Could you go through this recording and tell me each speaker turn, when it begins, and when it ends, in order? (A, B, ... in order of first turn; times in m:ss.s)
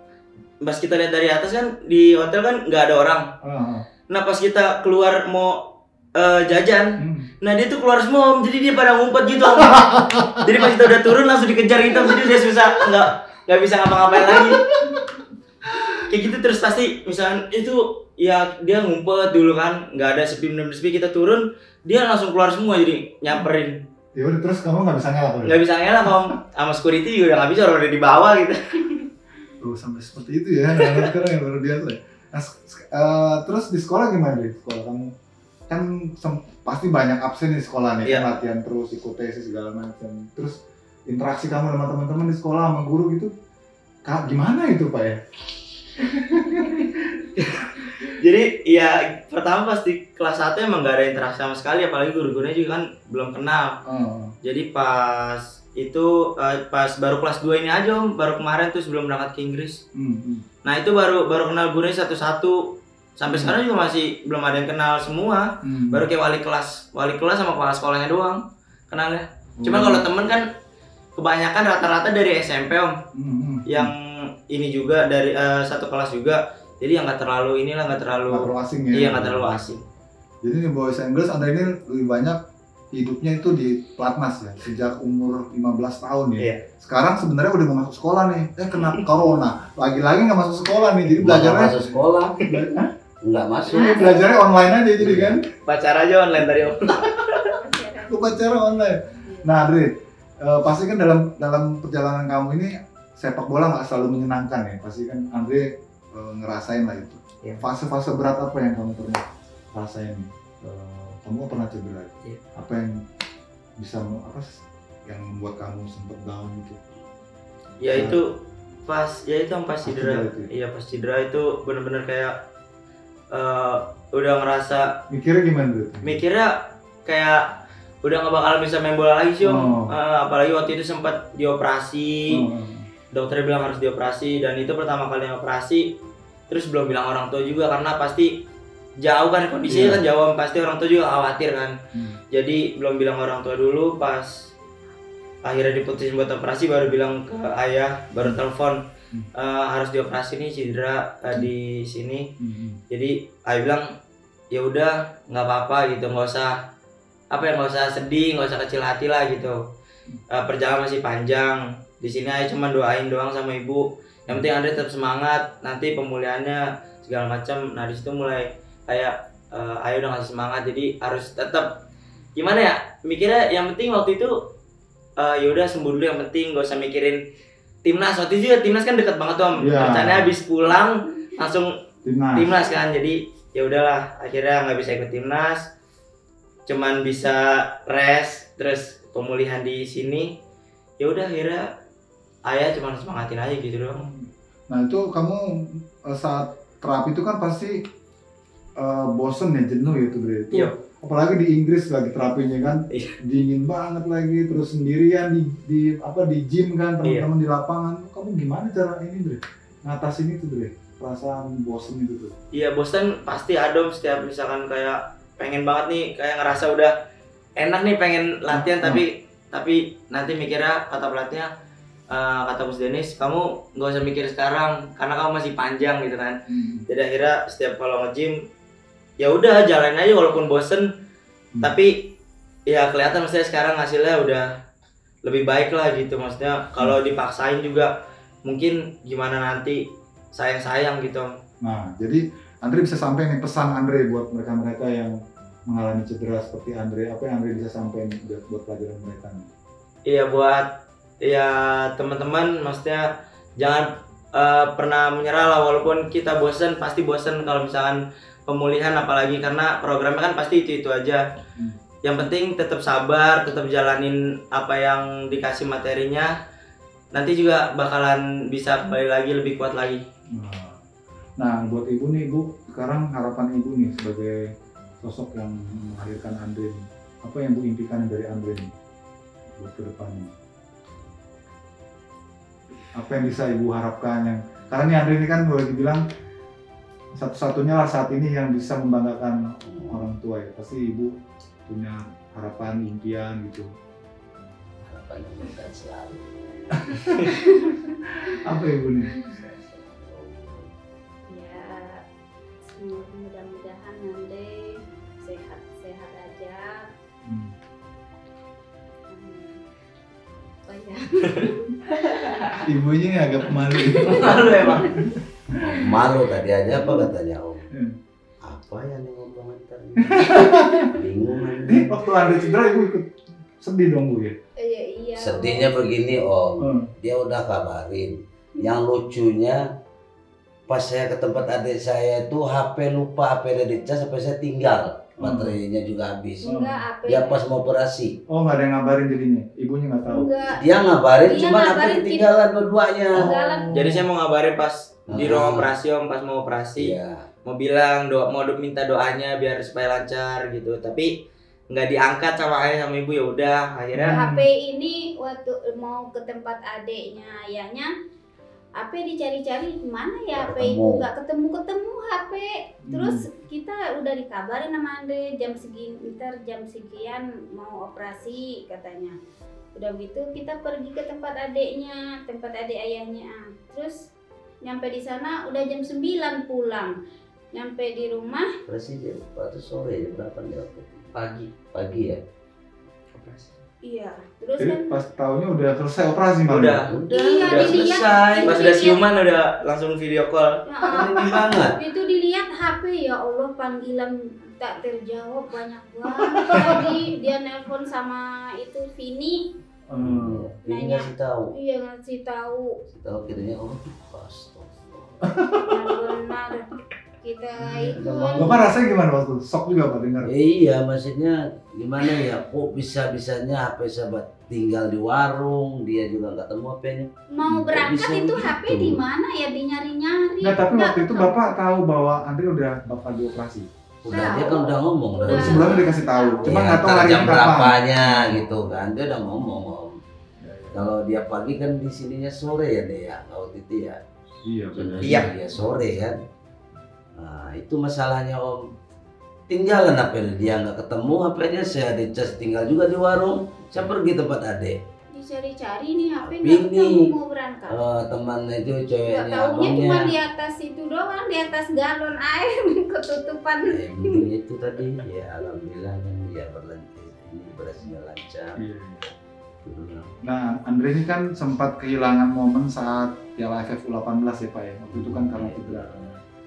0:00.6-0:03.3 A
0:03.4-0:03.9 B
0:04.1-0:14.7 A
0:07.0-0:07.3 B
0:09.7-0:10.5 B
0:14.2-0:15.0 B
0:15.6-0:16.0 B
0:16.1-0:23.8 A
0:24.2-0:26.2 B
0:25.4-0:29.1 A
0:29.6-0:35.1 B
0:30.8-0:31.1 A
0:35.7-0:43.3 B
0:44.1-0:45.2 B
0:45.9-0:47.2 B
0:47.4-0:53.8 A
0:53.9-0:54.3 B
0:54.4-0:59.8 A
1:00.0-1:00.4 B
1:00.6-1:10.5 A
1:03.3-1:03.6 B
1:05.6-1:06.1 B
1:09.6-1:10.0 B
1:11.2-1:12.9 A
1:13.1-1:13.9 B
1:13.7-1:19.8 A
1:18.3-1:19.7 B
1:20.4-1:22.4 B
1:22.9-1:31.9 B
1:26.4-1:26.6 A
1:28.7-1:29.1 A
1:31.2-1:32.4 C
1:32.5-1:32.9 B
1:33.2-1:34.3 C
1:33.7-1:35.4 B
1:35.0-1:35.4 C
1:35.6-1:37.5 A
1:37.4-1:38.4 D
1:38.1-1:53.0 B
1:39.2-1:39.5 D
1:53.8-1:56.8 B
1:57.8-1:58.3 A
1:57.9-1:58.2 B
1:58.9-2:02.4 A
1:59.8-2:00.5 B
2:03.3-2:05.0 A
2:05.1-2:06.2 B
2:06.0-2:07.4 A
2:08.0-2:12.4 A
2:09.4-2:10.0 B
2:12.3-2:12.9 B
2:13.1-2:15.9 A
2:16.5-2:18.4 A
2:19.0-2:21.8 A
2:19.7-2:20.0 B
2:21.9-2:22.2 B
2:22.3-2:24.5 A
2:25.4-2:28.8 A
2:29.4-2:32.3 A
2:32.4-2:32.8 B
2:32.9-2:33.9 A
2:34.5-2:36.6 A
2:37.3-2:39.6 A
2:40.3-2:51.8 A
2:52.4-2:54.4 A
2:55.2-2:57.2 A
2:57.8-3:01.7 A
2:59.6-3:00.3 B
3:02.0-3:02.6 B
3:02.4-3:05.7 A
3:06.7-3:10.3 A
3:11.0-3:11.7 A
3:12.5-3:14.0 A
3:13.9-3:17.8 B
3:18.8-3:32.4 B
3:27.0-3:27.3 A
3:32.5-3:37.0 A
3:37.6-3:41.5 A
3:38.5-3:39.0 B
3:42.1-3:46.4 A
3:46.5-3:46.9 B
3:46.9-3:48.4 A
3:49.2-3:50.9 A
3:51.6-3:52.1 A
3:52.7-3:54.5 A
3:55.2-3:57.9 A
3:58.4-4:01.3 A
4:01.6-4:05.2 B
4:05.7-4:09.5 B
4:10.1-4:10.7 A
4:11.2-4:21.2 A
4:22.0-4:26.3 A
4:27.1-4:30.0 A
4:30.3-4:30.8 B
4:31.4-4:34.4 B
4:35.0-4:38.7 B
4:39.6-4:40.3 B
4:43.0-4:46.0 B
4:47.2-4:51.1 B
4:49.6-4:50.0 C
4:51.7-4:53.7 B
4:54.9-4:57.3 C
4:56.7-4:57.3 B
4:57.2-4:57.9 D
4:58.0-4:59.4 B
4:59.4-5:00.7 C
5:01.3-5:02.0 D
5:02.6-5:06.9 D
5:07.2-5:07.5 B
5:09.1-5:09.6 D
5:10.7-5:12.5 D
5:12.0-5:12.6 A
5:12.6-5:16.0 B
5:13.7-5:15.1 D
5:13.9-5:14.9 A
5:15.6-5:17.7 C
5:16.7-5:17.1 B
5:18.4-5:21.9 C
5:20.0-5:21.0 B
5:21.7-5:24.4 B
5:24.6-5:25.9 D
5:25.2-5:29.7 C
5:26.6-5:26.9 B
5:30.7-5:36.5 C
5:35.2-5:35.6 B
5:36.4-5:37.4 D
5:36.5-5:36.8 B
5:37.1-5:38.2 C
5:38.3-5:40.3 B
5:40.1-5:40.6 D
5:40.5-5:43.3 C
5:41.2-5:42.3 D
5:43.1-5:43.8 D
5:43.2-5:44.1 B
5:43.7-5:51.1 A
5:45.1-5:45.7 C
5:46.8-5:47.3 C
5:51.7-5:54.2 A
5:53.9-5:54.5 B
5:54.0-5:57.9 D
5:58.8-6:09.2 D
6:00.3-6:01.0 C
6:02.9-6:03.3 B
6:09.8-6:14.1 D
6:14.6-6:16.9 D
6:17.5-6:18.5 D
6:18.7-6:22.2 C
6:21.2-6:21.5 A
6:23.1-6:23.6 A
6:23.8-6:25.0 D
6:24.6-6:26.8 B
6:26.4-6:30.6 A
6:26.9-6:28.6 C
6:27.1-6:29.0 D
6:30.7-6:39.5 D
6:30.9-6:31.8 C
6:36.2-6:37.0 B
6:39.9-6:40.5 B
6:40.0-6:41.5 C
6:40.7-6:42.8 D
6:42.9-6:45.3 C
6:45.3-6:45.7 B
6:45.6-6:46.7 D
6:47.2-6:48.6 D
6:47.7-6:50.3 B
6:47.9-6:48.6 C
6:50.3-6:59.0 C
6:57.3-7:01.5 D
7:00.4-7:03.7 B
7:04.0-7:05.9 C
7:04.1-7:06.8 D
7:05.2-7:08.8 B
7:06.4-7:10.0 C
7:10.4-7:10.9 B
7:10.7-7:14.0 C
7:14.4-7:16.0 B
7:14.7-7:16.2 C
7:15.0-7:15.3 A
7:17.2-7:18.7 C
7:19.5-7:24.8 C
7:25.1-7:27.8 D
7:26.2-7:27.1 C
7:27.7-7:30.2 C
7:29.1-7:34.2 D
7:33.7-7:38.6 C
7:38.6-7:39.1 B
7:39.6-7:40.1 C
7:40.2-7:46.2 B
7:44.9-7:46.1 C